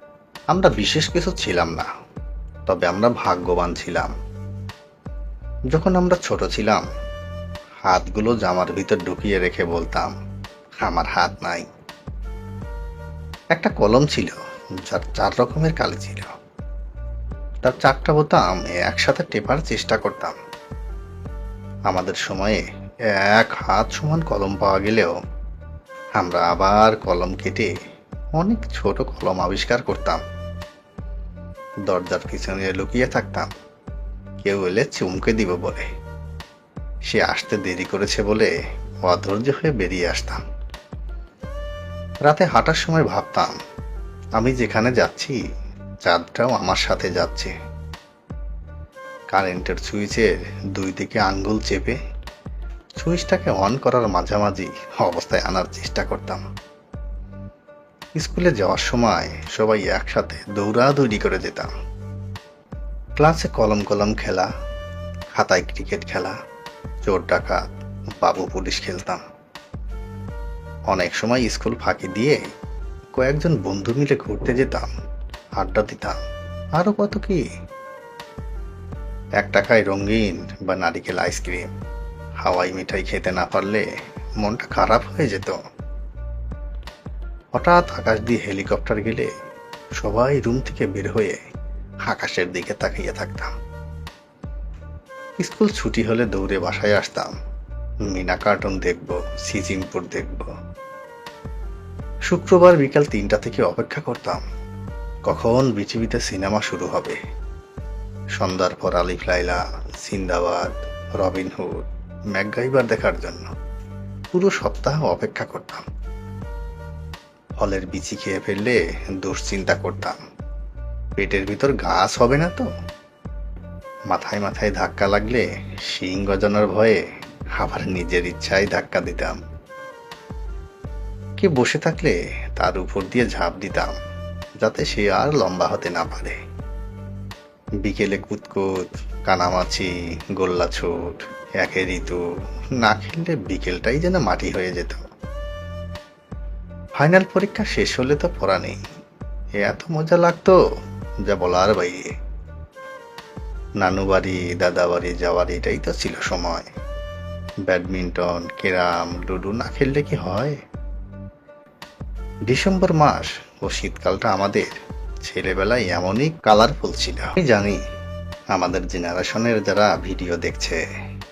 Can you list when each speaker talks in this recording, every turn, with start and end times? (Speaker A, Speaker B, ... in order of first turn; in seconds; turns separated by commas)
Speaker A: 0.5-1.9, Speaker A: 2.7-4.1, Speaker A: 5.7-6.8, Speaker A: 7.8-10.1, Speaker A: 10.8-11.7, Speaker A: 13.5-16.3, Speaker A: 17.6-20.4, Speaker A: 21.9-22.6, Speaker A: 23.2-25.2, Speaker A: 26.2-27.7, Speaker A: 28.4-30.2, Speaker A: 31.9-33.5, Speaker A: 34.4-35.9, Speaker A: 37.1-38.5, Speaker A: 39.0-40.4, Speaker A: 42.3-43.5, Speaker A: 44.4-45.4, Speaker A: 46.0-47.5, Speaker A: 49.3-52.0, Speaker A: 53.0-56.4, Speaker A: 58.2-61.7, Speaker A: 63.2-64.5, Speaker A: 65.3-66.3, Speaker A: 67.0-67.6, Speaker A: 68.2-69.2, Speaker A: 70.9-72.4, Speaker A: 73.2-74.9, Speaker A: 75.6-76.2, Speaker A: 76.8-77.4, Speaker A: 79.4-81.7, Speaker A: 82.4-83.9, Speaker A: 84.4-85.6, Speaker A: 87.5-89.3, Speaker A: 90.0-91.4, Speaker A: 92.0-93.5, Speaker A: 95.4-97.3, Speaker A: 98.1-100.5, Speaker A: 102.3-104.4, Speaker A: 105.3-107.2, Speaker A: 108.4-113.5, Speaker A: 114.3-115.8, Speaker A: 117.6-120.2, Speaker A: 121.2-122.7, Speaker A: 124.1-127.0, Speaker A: 127.6-129.4, Speaker A: 131.4-134.0, Speaker A: 134.6-136.4, Speaker A: 137.8-142.2, Speaker A: 142.8-145.0, Speaker A: 147.0-148.8, Speaker A: 149.6-150.6, Speaker A: 151.3-152.0, Speaker A: 153.8-156.7, Speaker A: 157.7-160.6, Speaker A: 162.5-167.8, Speaker A: 168.6-170.8